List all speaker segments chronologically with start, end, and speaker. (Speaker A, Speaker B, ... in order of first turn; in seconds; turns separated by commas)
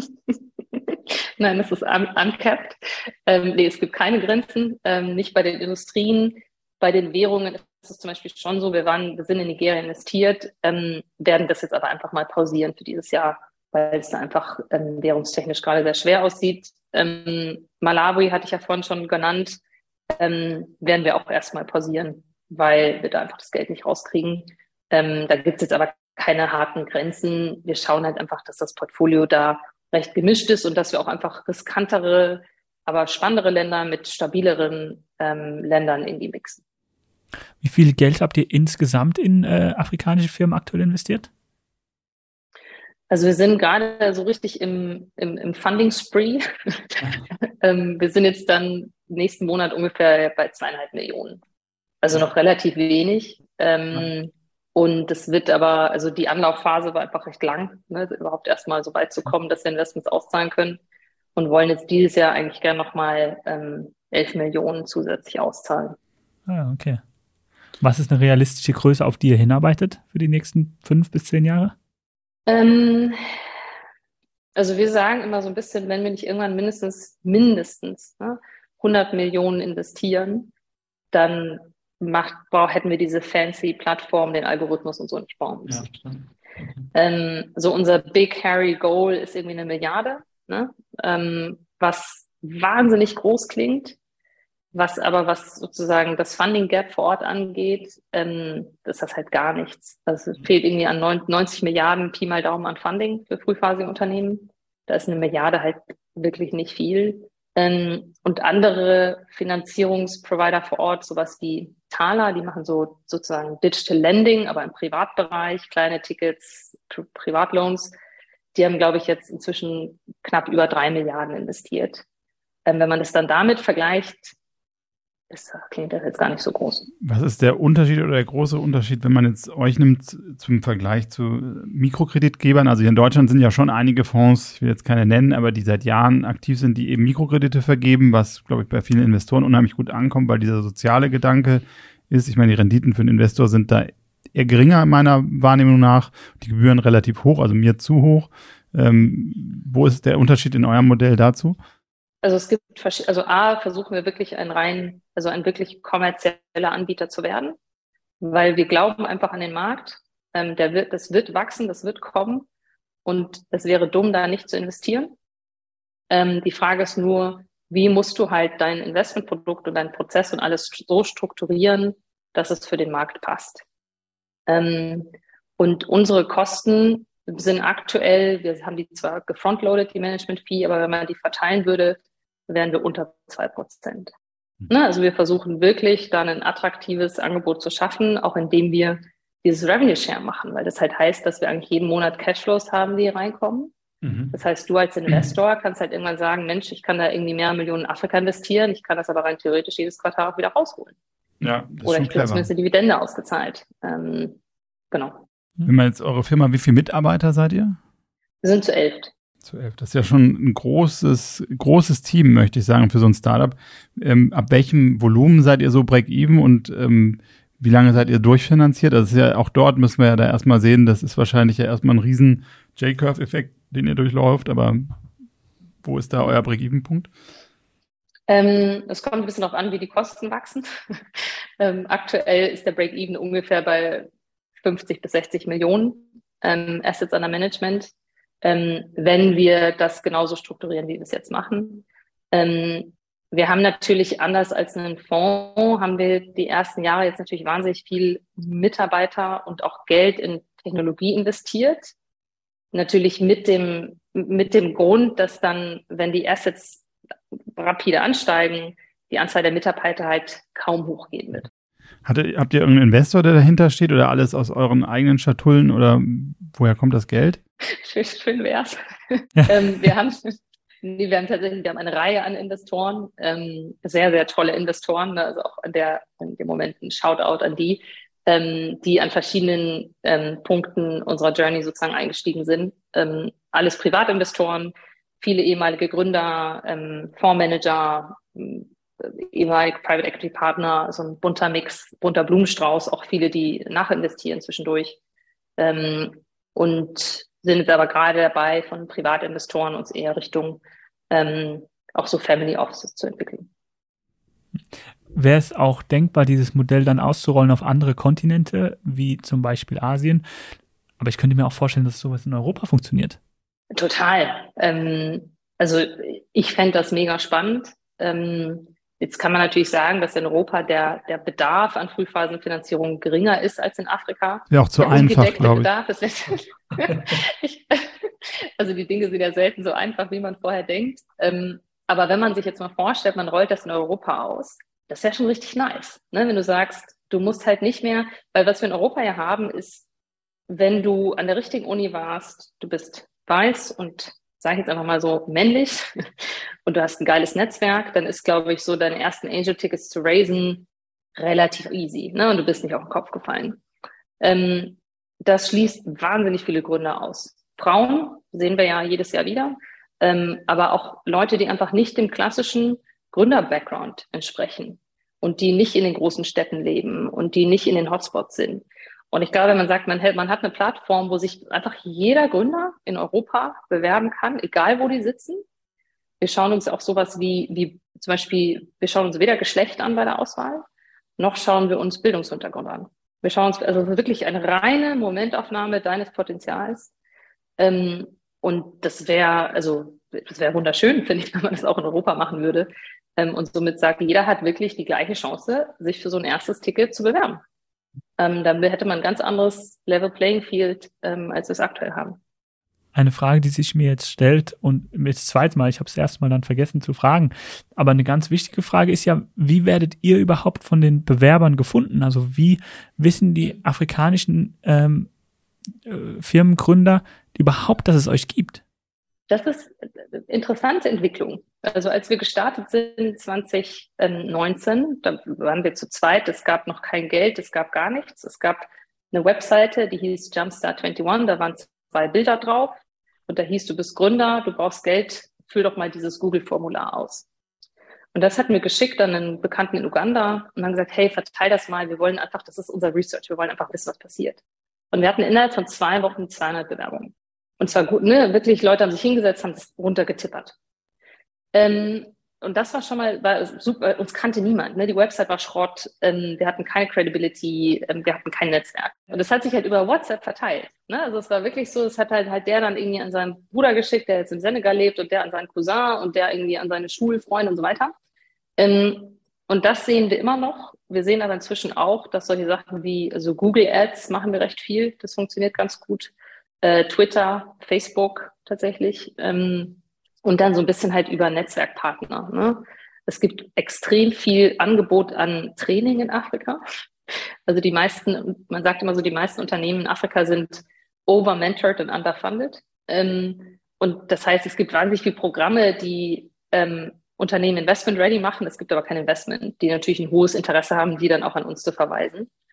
Speaker A: 0.7-19.6, Speaker A: 20.2-36.6, Speaker B: 37.6-41.3, Speaker A: 43.1-47.1, Speaker A: 47.6-51.4, Speaker A: 52.0-60.8, Speaker A: 61.4-66.0, Speaker B: 66.5-67.0, Speaker B: 67.8-71.7, Speaker A: 72.5-73.2, Speaker A: 74.5-80.5, Speaker A: 81.1-85.8, Speaker B: 85.8-86.1, Speaker A: 86.9-94.0, Speaker A: 94.7-117.9, Speaker A: 118.5-122.0, Speaker A: 122.7-124.3, Speaker A: 125.3-126.9, Speaker C: 127.0-151.6, Speaker A: 152.2-157.6, Speaker A: 158.2-162.4, Speaker A: 163.1-165.1, Speaker A: 166.1-173.6, Speaker A: 174.5-184.1, Speaker A: 184.7-193.7, Speaker C: 194.0-194.3, Speaker A: 194.3-200.9, Speaker C: 201.4-202.5, Speaker A: 201.8-204.4, Speaker A: 204.9-205.2, Speaker C: 205.6-207.8, Speaker A: 208.4-209.1, Speaker C: 209.4-224.8, Speaker C: 225.8-227.1, Speaker A: 228.3-230.7, Speaker A: 231.6-234.1, Speaker A: 234.6-237.9, Speaker A: 238.4-251.9, Speaker A: 252.7-256.8, Speaker A: 257.5-261.5, Speaker C: 262.0-267.4, Speaker A: 267.7-295.0, Speaker A: 295.6-303.5, Speaker B: 305.1-310.2, Speaker B: 311.0-313.2, Speaker A: 313.7-339.8, Speaker C: 324.5-325.7, Speaker A: 340.5-345.9, Speaker A: 346.6-353.6, Speaker A: 354.2-375.4, Speaker A: 376.2-380.6, Speaker A: 381.2-386.9, Speaker A: 387.6-397.4, Speaker A: 398.2-402.2, Speaker B: 402.9-415.1, Speaker B: 415.9-418.6, Speaker A: 419.3-432.8, Speaker A: 433.3-437.2, Speaker A: 438.1-450.5, Speaker A: 451.5-467.9, Speaker A: 468.6-486.6, Speaker A: 487.5-502.3